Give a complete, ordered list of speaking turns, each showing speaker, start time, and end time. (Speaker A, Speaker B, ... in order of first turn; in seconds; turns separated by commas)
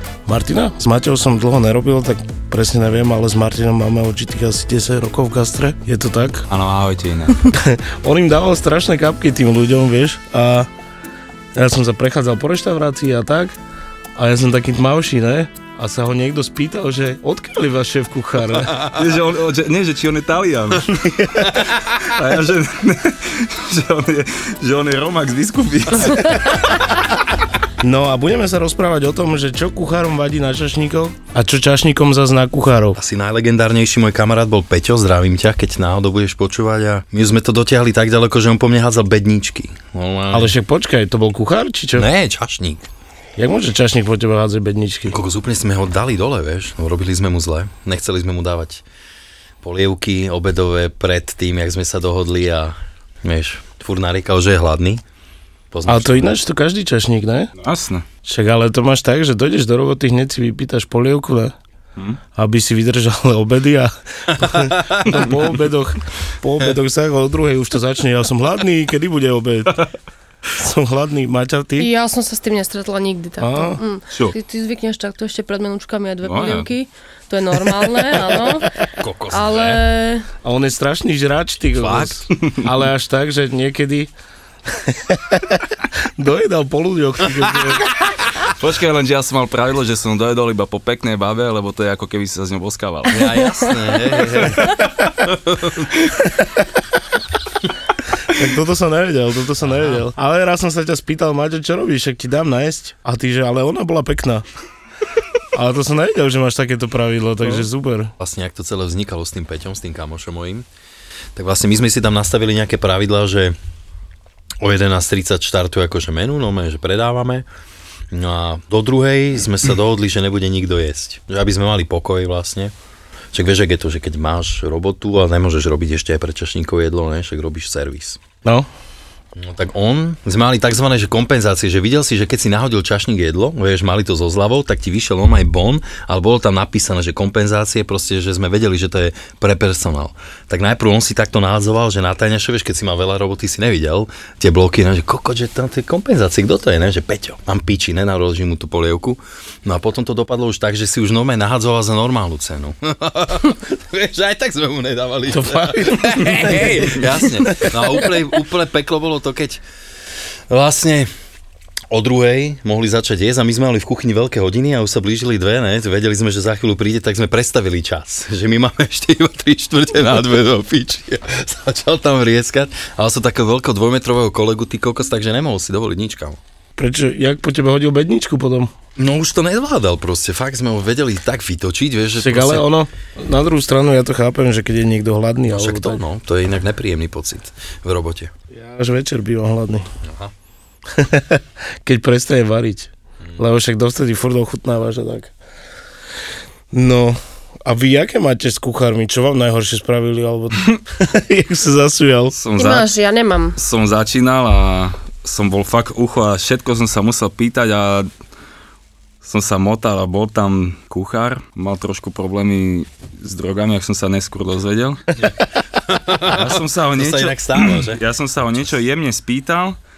Speaker A: 0.3-6.5, Speaker B: 6.5-7.4, Speaker A: 7.5-10.7, Speaker A: 11.5-13.5, Speaker A: 14.2-18.8, Speaker B: 18.8-20.9, Speaker A: 20.9-21.6, Speaker B: 21.9-26.7, Speaker A: 27.8-33.0, Speaker C: 32.9-40.5, Speaker A: 40.3-42.1, Speaker C: 41.9-42.9, Speaker A: 43.4-45.2, Speaker C: 45.1-48.8, Speaker C: 49.6-55.0, Speaker C: 55.7-56.4, Speaker A: 55.9-57.5, Speaker B: 57.6-58.0, Speaker A: 58.2-61.5, Speaker A: 62.4-69.9, Speaker C: 64.4-65.2, Speaker A: 70.5-71.9, Speaker D: 71.8-78.7, Speaker A: 73.4-73.8, Speaker B: 76.2-76.7, Speaker C: 79.0-79.8, Speaker D: 79.3-80.2, Speaker A: 80.4-84.1, Speaker C: 81.7-82.3, Speaker A: 84.7-87.9, Speaker B: 88.4-93.4, Speaker C: 93.1-95.9, Speaker B: 94.4-94.7, Speaker A: 98.2-104.4, Speaker C: 99.7-100.0, Speaker A: 105.5-108.1, Speaker C: 108.2-110.7, Speaker C: 111.4-113.5, Speaker C: 114.6-117.5, Speaker C: 118.1-122.7, Speaker C: 123.3-128.2, Speaker C: 129.3-159.6, Speaker A: 155.3-157.7, Speaker C: 160.5-161.1, Speaker C: 161.9-176.4, Speaker A: 176.8-178.7, Speaker C: 178.9-182.7, Speaker A: 182.2-186.0, Speaker C: 185.5-188.3, Speaker A: 188.5-189.9, Speaker C: 190.0-190.3, Speaker A: 190.9-195.3, Speaker A: 196.7-202.3, Speaker B: 202.3-202.9, Speaker D: 202.6-203.6, Speaker B: 203.6-208.1, Speaker B: 209.2-215.0, Speaker C: 215.2-218.0, Speaker B: 216.3-219.8